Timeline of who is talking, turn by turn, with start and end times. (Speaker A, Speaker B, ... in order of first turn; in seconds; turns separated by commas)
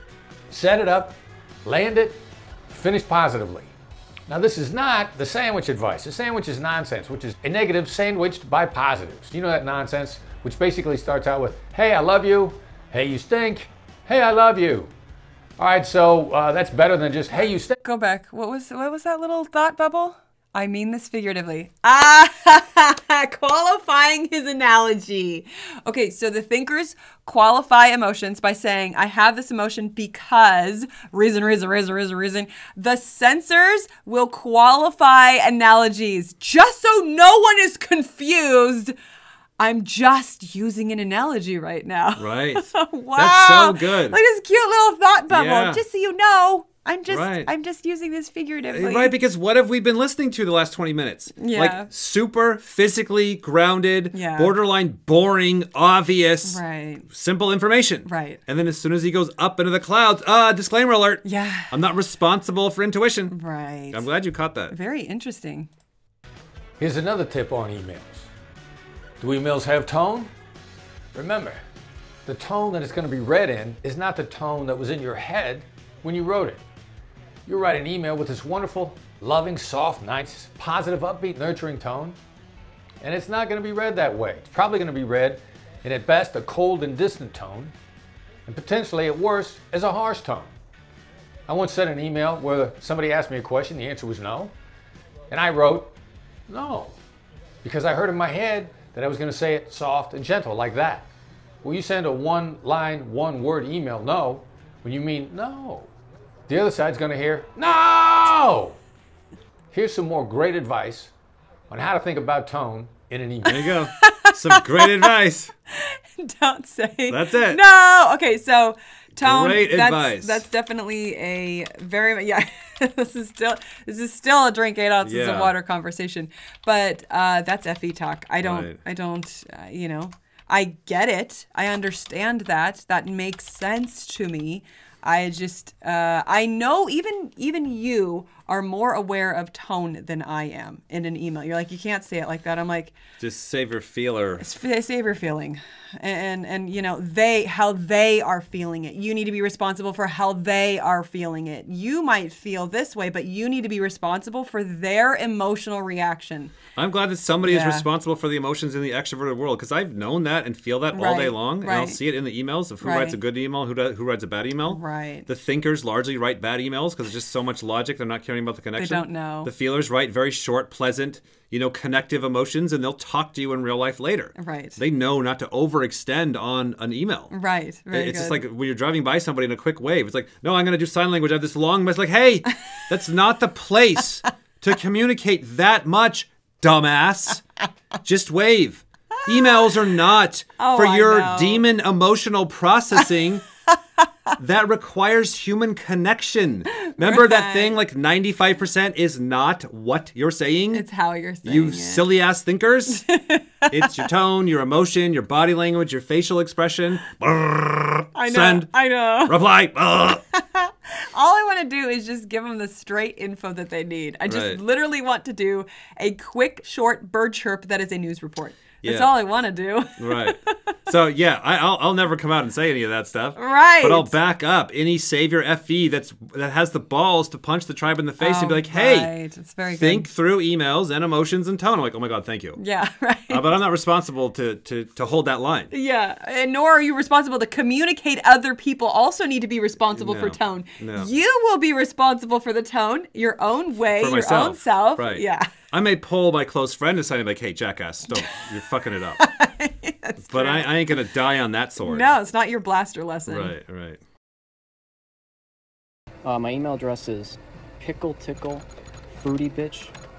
Speaker A: 0.5-2.2, Speaker A: 2.7-3.7, Speaker A: 4.3-14.9, Speaker A: 15.6-17.8, Speaker B: 17.8-38.9, Speaker B: 39.6-49.1, Speaker C: 42.2-42.6, Speaker C: 43.1-44.2, Speaker C: 45.3-45.8, Speaker C: 47.1-47.5, Speaker C: 48.7-63.3, Speaker B: 51.4-51.9, Speaker B: 54.1-54.5, Speaker B: 56.4-57.1, Speaker B: 58.0-58.4, Speaker B: 61.2-61.7, Speaker B: 63.3-64.1, Speaker C: 63.9-64.7, Speaker B: 64.7-65.7, Speaker A: 66.8-68.3, Speaker A: 69.2-70.3, Speaker A: 71.1-71.6, Speaker A: 72.2-76.6, Speaker A: 77.5-82.2, Speaker A: 83.0-87.7, Speaker A: 88.5-90.5, Speaker A: 91.5-94.5, Speaker A: 95.3-95.9, Speaker A: 96.5-97.0, Speaker A: 97.6-101.1, Speaker A: 101.6-105.9, Speaker A: 106.5-108.8, Speaker A: 109.7-111.1, Speaker A: 111.7-113.7, Speaker C: 113.4-115.5, Speaker B: 113.5-115.1, Speaker B: 115.7-142.9, Speaker C: 117.1-117.6, Speaker C: 119.2-120.4, Speaker C: 125.0-125.5, Speaker C: 128.4-128.8, Speaker C: 143.2-144.4, Speaker B: 144.4-156.6, Speaker C: 156.8-177.3, Speaker B: 157.4-157.8, Speaker B: 160.9-162.0, Speaker B: 162.8-163.2, Speaker B: 164.6-165.3, Speaker B: 168.8-169.5, Speaker B: 174.3-174.8, Speaker B: 177.3-178.4, Speaker C: 177.9-187.4, Speaker C: 188.0-193.4, Speaker B: 189.3-189.7, Speaker B: 190.6-191.6, Speaker B: 193.0-193.3, Speaker C: 194.4-200.8, Speaker B: 196.9-197.8, Speaker B: 200.7-202.1, Speaker C: 201.4-203.0, Speaker B: 202.9-204.0, Speaker C: 203.7-208.7, Speaker B: 208.1-209.4, Speaker C: 209.2-210.2, Speaker B: 210.1-220.6, Speaker C: 214.3-214.6, Speaker C: 218.8-219.1, Speaker C: 220.0-229.1, Speaker B: 223.3-224.1, Speaker B: 228.2-230.1, Speaker C: 229.7-232.6, Speaker B: 232.6-233.5, Speaker C: 233.3-235.7, Speaker B: 235.7-245.5, Speaker C: 239.9-241.1, Speaker C: 243.9-249.2, Speaker B: 248.1-248.4, Speaker B: 249.2-251.0, Speaker C: 250.2-252.1, Speaker B: 251.8-253.6, Speaker C: 253.3-254.0, Speaker D: 256.2-259.9